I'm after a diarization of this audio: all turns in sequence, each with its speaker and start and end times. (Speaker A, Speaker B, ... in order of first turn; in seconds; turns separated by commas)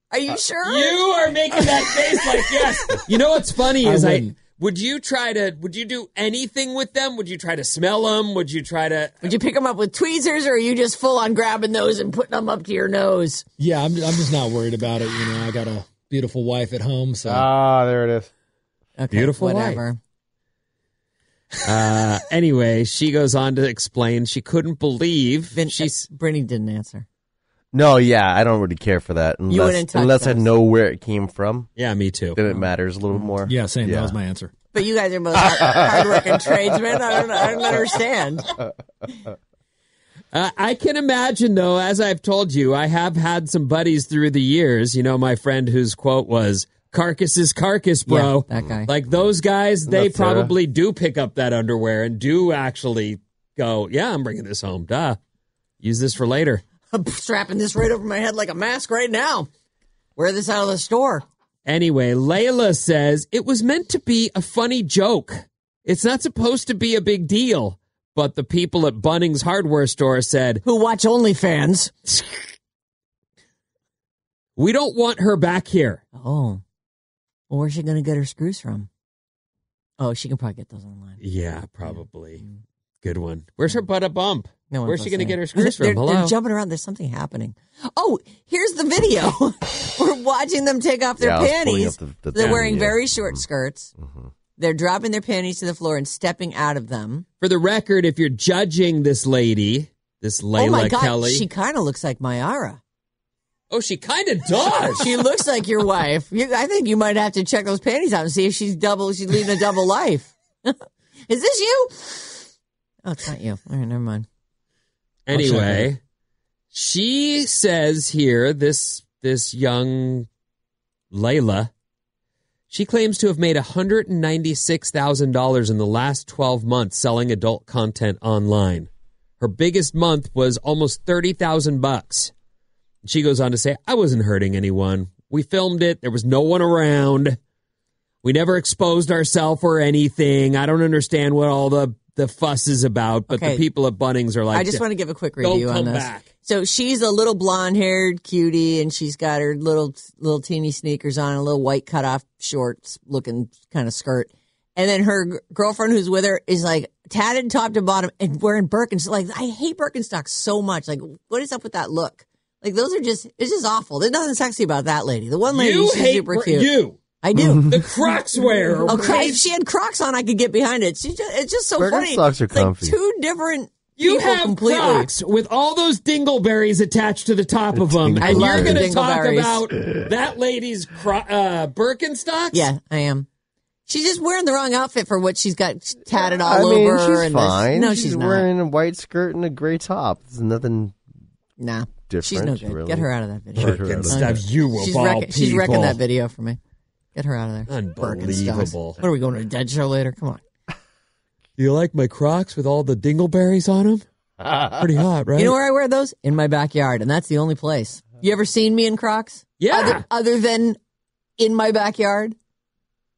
Speaker A: 0.1-1.0, Speaker B: 0.6-9.3, Speaker C: 3.8-4.4, Speaker A: 9.2-13.4, Speaker C: 13.6-17.5, Speaker D: 17.2-18.3, Speaker A: 19.0-20.0, Speaker B: 19.1-19.8, Speaker B: 21.6-26.1, Speaker A: 25.5-27.1, Speaker D: 27.7-31.7, Speaker A: 29.5-30.5, Speaker B: 31.8-32.4, Speaker D: 32.3-34.1, Speaker C: 33.4-34.5, Speaker A: 34.7-38.5, Speaker B: 40.3-55.2, Speaker A: 48.1-48.9, Speaker D: 49.9-50.5, Speaker B: 55.8-56.6, Speaker A: 56.9-59.5, Speaker A: 60.1-61.2, Speaker B: 61.6-70.6, Speaker A: 70.6-71.9, Speaker B: 74.6-76.0, Speaker A: 76.1-76.6, Speaker A: 77.5-78.9, Speaker A: 80.0-81.2, Speaker B: 81.2-82.4, Speaker A: 81.8-82.6, Speaker B: 83.0-86.3, Speaker A: 84.7-93.9, Speaker D: 91.2-93.4, Speaker B: 92.4-92.7, Speaker D: 94.0-94.3, Speaker A: 94.6-97.2, Speaker B: 97.4-101.5, Speaker A: 100.6-102.8, Speaker B: 103.7-105.0, Speaker A: 104.9-112.5, Speaker A: 113.0-114.3, Speaker B: 115.3-116.0, Speaker C: 115.3-115.9, Speaker B: 116.7-120.3, Speaker B: 121.1-121.7, Speaker B: 122.7-128.9, Speaker B: 129.4-132.3, Speaker B: 133.0-137.4, Speaker B: 138.2-144.8, Speaker A: 143.3-143.6, Speaker A: 144.5-166.7, Speaker B: 145.4-146.3, Speaker B: 165.5-167.0, Speaker A: 167.2-167.8, Speaker B: 167.5-169.4, Speaker A: 168.8-175.1, Speaker D: 171.8-173.0, Speaker B: 174.0-182.7, Speaker D: 177.7-178.9, Speaker A: 178.2-179.6, Speaker A: 182.5-183.3, Speaker A: 183.9-188.5, Speaker D: 186.1-190.9, Speaker A: 191.6-196.6, Speaker D: 192.1-194.4, Speaker B: 193.6-196.0, Speaker A: 197.1-200.4, Speaker B: 197.7-199.0, Speaker B: 201.6-204.0, Speaker B: 204.6-205.6, Speaker A: 205.3-210.8, Speaker B: 209.6-210.0, Speaker A: 211.4-212.3